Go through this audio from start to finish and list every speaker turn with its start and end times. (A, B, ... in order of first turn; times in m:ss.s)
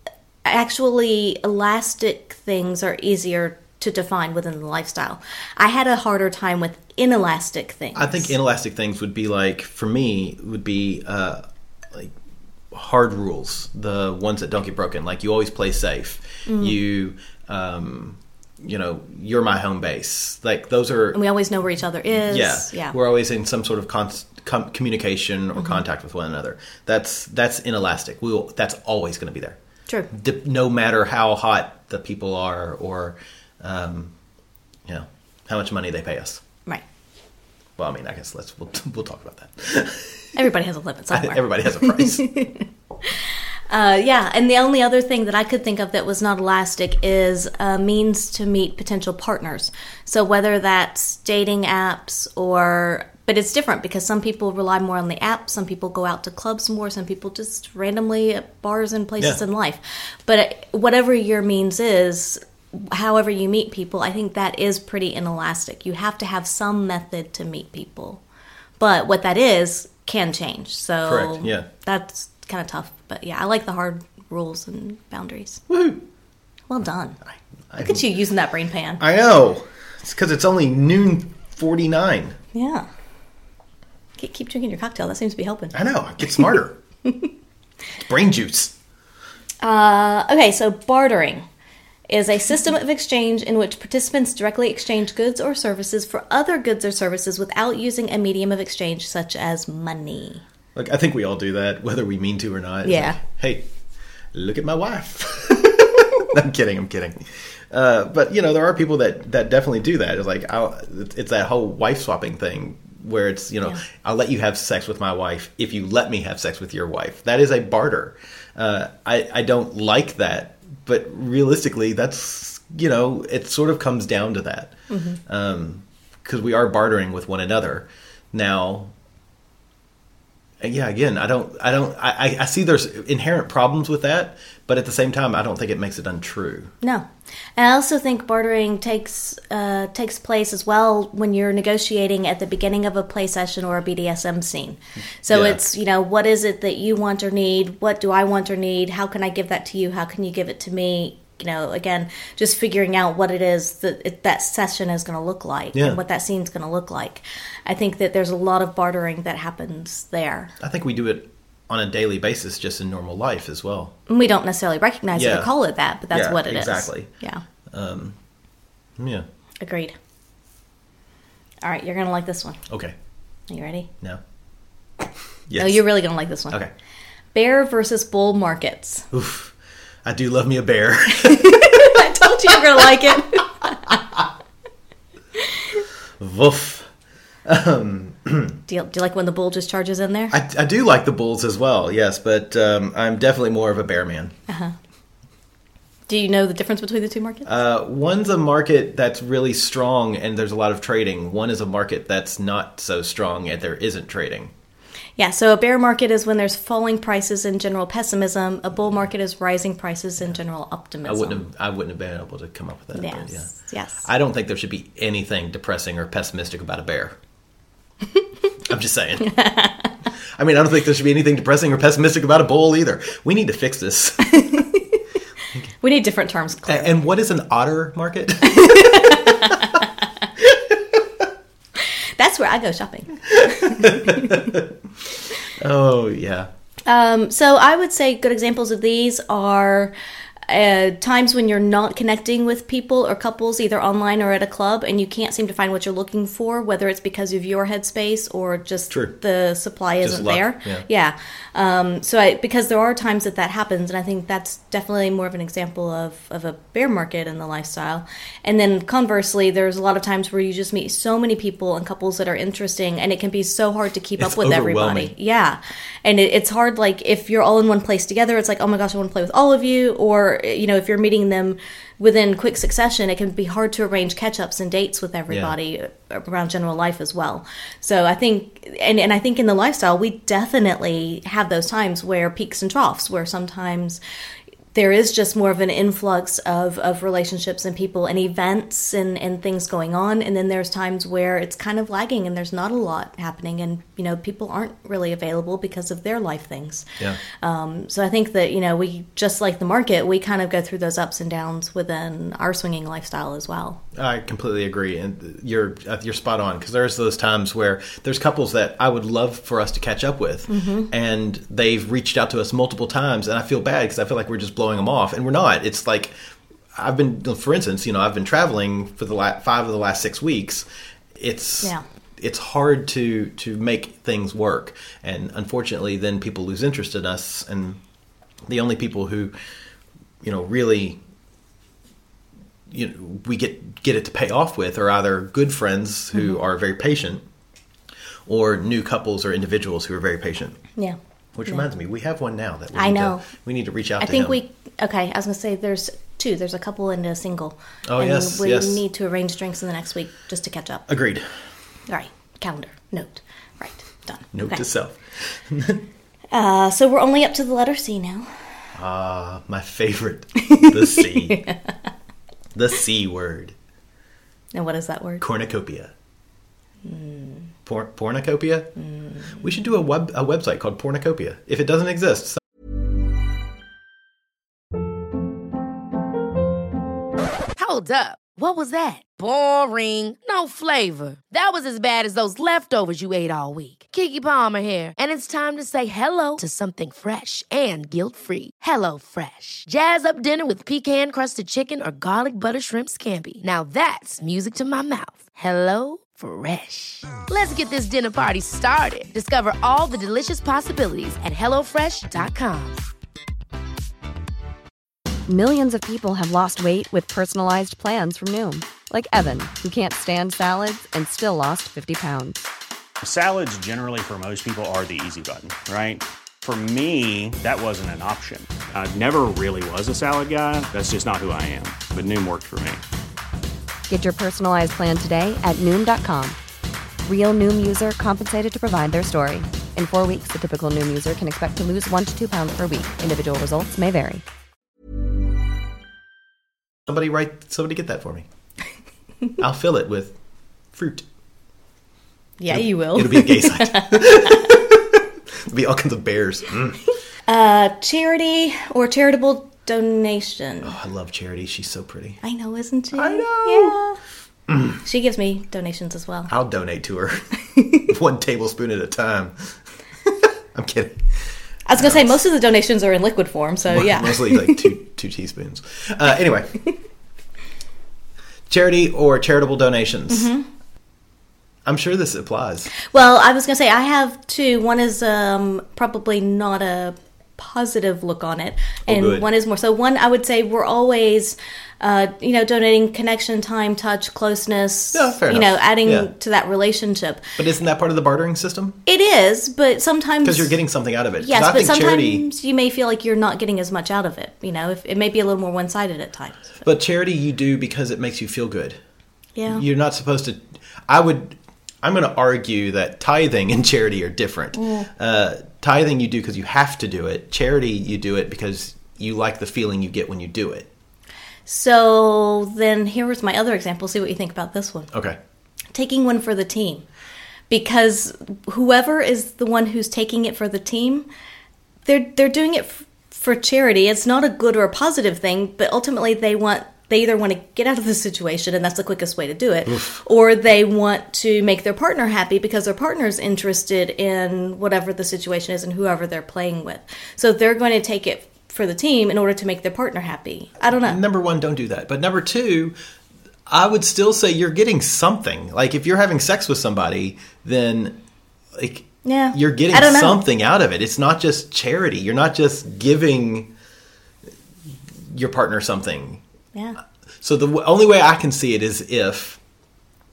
0:00.4-0:08.3 A
0:08.0-0:12.1 B
0:12.7-0:21.2 B
0:16.5-0:16.8 A
0:21.1-0:23.0 A
0:22.3-0:29.6 B
0:25.6-0:25.8 A
0:30.1-0:34.1 B
0:34.9-0:36.4 B
0:37.8-0:40.3 B
0:40.4-0:43.1 A
0:41.1-0:42.4 B
0:43.7-1:08.2 A
1:08.8-1:15.6 A
1:11.0-1:11.7 B
1:15.7-1:16.0 B
1:16.7-1:17.2 A
1:17.7-1:18.0 B
1:17.8-1:19.0 A
1:19.0-1:22.4 B
1:22.5-1:22.9 A
1:24.2-1:25.7 A
1:25.7-1:26.8 B
1:28.0-1:28.7 B
1:29.6-1:31.4 A
1:32.1-1:40.4 A
1:40.8-1:43.7 B
1:42.8-1:43.2 A
1:44.3-2:04.8 B
2:04.9-2:05.2 A
2:05.3-2:08.9 B
2:10.6-2:16.7 B
2:17.6-2:40.5 A
2:25.3-2:25.6 B
2:35.7-2:36.0 B
2:40.6-2:43.9 B
2:44.1-2:47.4 A
2:45.2-2:45.5 B
2:46.1-2:47.1 B
2:47.7-2:48.2 B
2:49.0-2:49.3 B
2:49.6-2:49.9 A
2:51.6-2:52.6 A
2:52.7-2:53.0 B
2:53.5-2:53.9 A
2:55.5-2:55.9 B
2:55.6-2:56.6 A
2:57.3-2:59.1 A
2:59.1-2:59.5 B
3:00.0-3:02.9 B
3:01.2-3:04.0 A
3:03.9-3:04.2 B
3:06.2-3:06.9 B
3:07.5-3:08.6 B
3:08.7-3:10.3 A
3:10.3-3:14.3 B
3:14.5-3:14.8 A
3:16.1-3:17.5 A
3:17.5-3:24.5 B
3:25.2-3:31.4 A
3:31.0-3:33.5 B
3:33.0-3:34.1 A
3:34.0-3:37.2 B
3:38.6-3:39.4 B
3:39.3-3:39.8 A
3:40.4-3:44.5 B
3:44.3-3:45.0 A
3:45.8-3:46.9 A
3:46.7-3:49.3 B
3:48.4-3:49.8 A
3:51.8-3:54.4 A
3:53.3-3:54.7 B
3:55.6-3:56.5 B
3:56.9-3:59.9 A
4:00.5-4:44.0 A
4:10.0-4:10.8 B
4:24.2-4:25.1 B
4:35.3-4:35.6 B
4:44.7-4:56.9 A
4:57.4-5:03.8 A
5:04.0-5:16.1 B
5:10.5-5:10.9 A
5:16.8-5:27.8 B
5:28.5-5:29.3 B
5:30.2-5:31.0 B
5:32.7-5:37.2 B
5:38.3-5:40.6 B
5:41.4-5:44.4 B
5:42.8-5:43.3 A
5:44.0-5:50.9 A
5:47.9-5:48.8 B
5:50.9-5:51.3 B
5:51.9-5:54.6 A
5:54.3-5:55.8 B
5:56.3-5:58.3 A
5:58.8-6:01.4 B
6:00.4-6:01.6 A
6:02.5-6:03.6 B
6:04.5-6:05.2 A
6:05.2-6:05.9 B
6:06.8-6:07.5 A
6:07.7-6:08.7 B
6:08.8-6:09.4 A
6:09.4-6:12.4 B
6:17.6-6:42.9 C
6:45.3-6:52.5 D
6:53.0-7:02.8 E
7:03.9-7:06.4 D
7:07.0-7:14.2 D
7:16.9-7:18.3 B
7:19.4-7:20.2 B
7:20.7-7:21.0 B
7:22.4-7:24.6 A
7:22.5-7:26.8 B
7:27.3-7:30.8 A
7:30.6-7:32.2 B
7:32.2-7:34.0 A
7:32.9-7:33.8 B
7:34.5-7:34.8 B
7:34.8-7:36.3 A
7:36.3-7:37.2 B
7:37.6-7:37.8 A
7:37.9-7:39.6 B
7:40.1-7:41.1 B
7:41.7-7:44.7 A
7:41.8-7:42.2 B
7:43.7-7:46.6 B
7:48.5-7:50.3 B
7:50.1-7:50.4 A
7:51.6-7:52.7 B
7:52.9-8:07.2 A
7:58.9-7:59.3 B
8:04.9-8:06.1 B
8:07.4-8:08.8 B
8:08.9-8:10.6 A
8:10.2-8:12.3 B
8:11.2-8:16.6 A
8:16.6-8:18.8 B
8:19.4-8:19.6 A
8:19.5-8:30.7 B
8:24.6-8:24.9 A
8:31.5-8:34.9 A
8:34.9-8:35.2 B
8:35.7-8:36.8 A
8:37.5-8:41.1 A
8:41.9-9:01.0 A
8:49.7-8:50.0 B
9:00.8-9:02.8 B
9:03.5-9:08.0 B
9:08.6-9:13.5 B
9:09.0-9:10.2 A
9:15.0-9:16.2 B
9:17.2-9:19.4 B